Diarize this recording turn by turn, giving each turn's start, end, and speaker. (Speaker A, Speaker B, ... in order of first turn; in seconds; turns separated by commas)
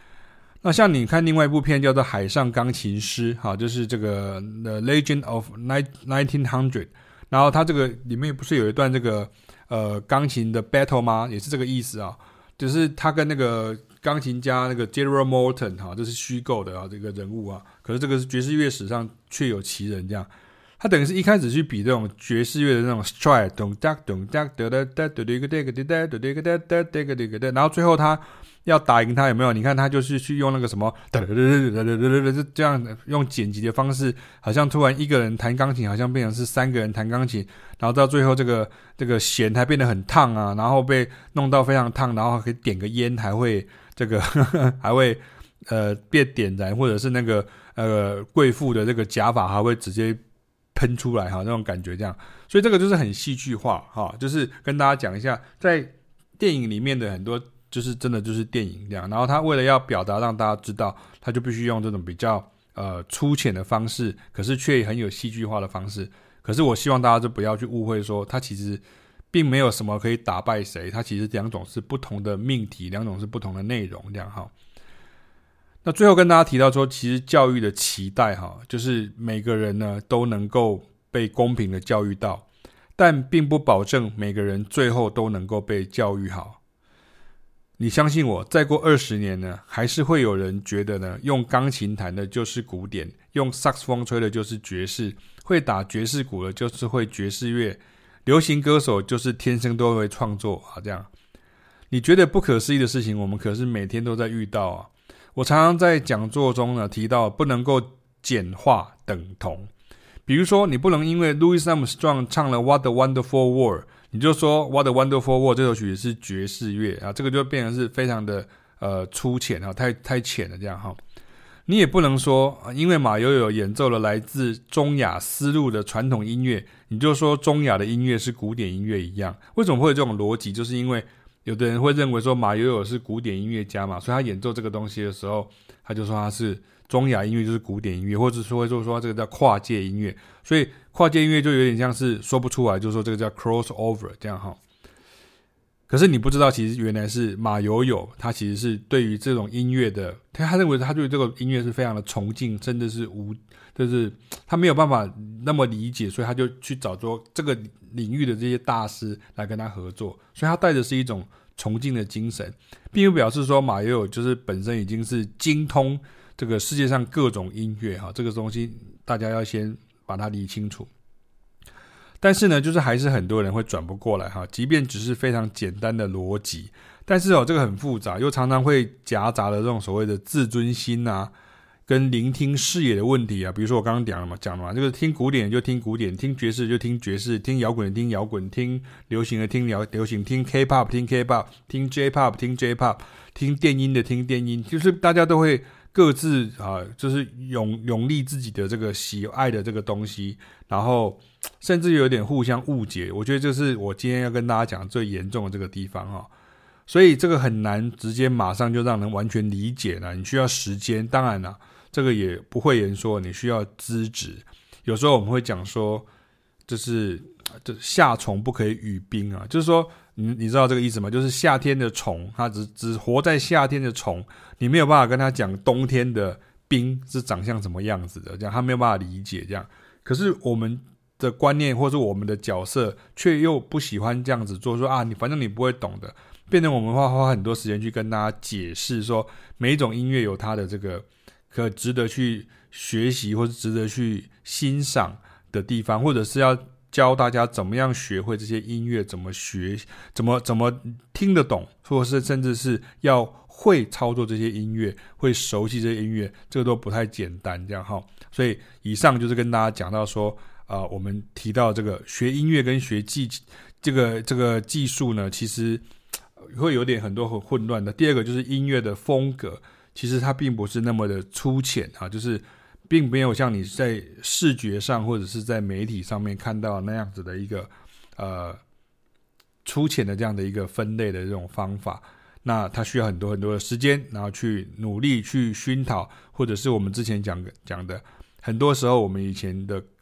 Speaker A: 0.6-50.2, Speaker A: 50.7-74.5, Speaker A: 75.8-82.5, Speaker A: 83.0-86.6, Speaker A: 87.8-101.1, Speaker A: 101.9-109.7, Speaker A: 110.2-121.0, Speaker A: 121.7-144.6, Speaker A: 145.9-170.9, Speaker A: 172.2-181.3, Speaker A: 181.9-206.3, Speaker A: 206.9-216.1, Speaker A: 216.7-265.8, Speaker A: 266.4-278.6, Speaker A: 279.6-289.8